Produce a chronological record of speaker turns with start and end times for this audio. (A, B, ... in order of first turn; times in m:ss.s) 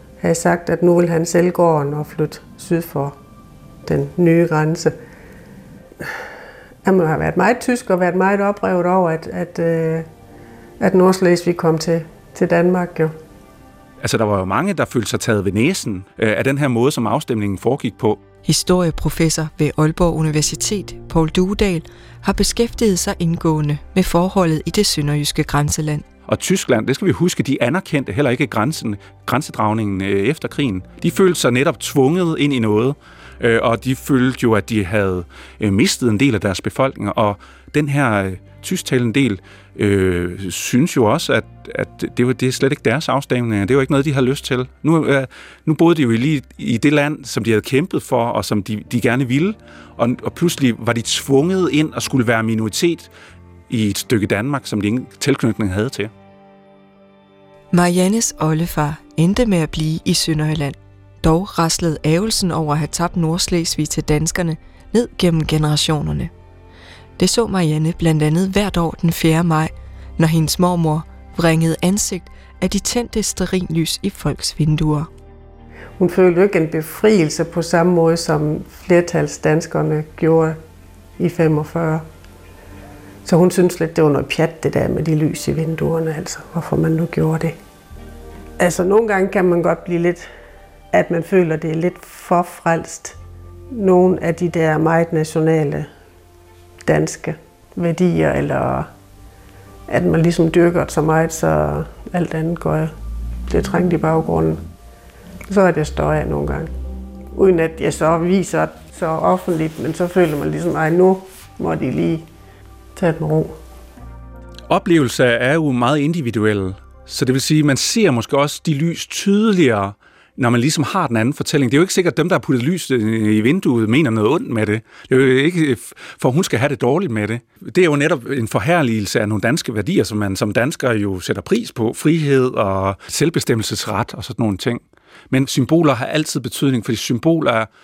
0:00.2-0:03.2 A
0:03.8-0:04.9 A
0:06.8-0:10.1 A
0:10.8-0:13.1 A
0:14.0-0:18.2 B
0:18.4-0:26.1 C
0:26.3-0:53.1 B
0:53.7-0:56.1 B
0:57.7-1:06.3 C
1:07.2-1:15.1 C
1:16.0-1:20.6 A
1:21.2-1:22.0 A
1:23.2-1:27.6 A
1:28.6-1:30.3 A
1:30.9-1:33.2 A
1:33.7-1:35.9 A
1:36.8-1:38.9 A
1:39.9-1:42.9 A
1:43.5-1:44.6 A
1:45.5-1:46.7 A
1:47.3-1:52.3 A
1:53.0-1:53.6 A
1:54.7-2:17.7 B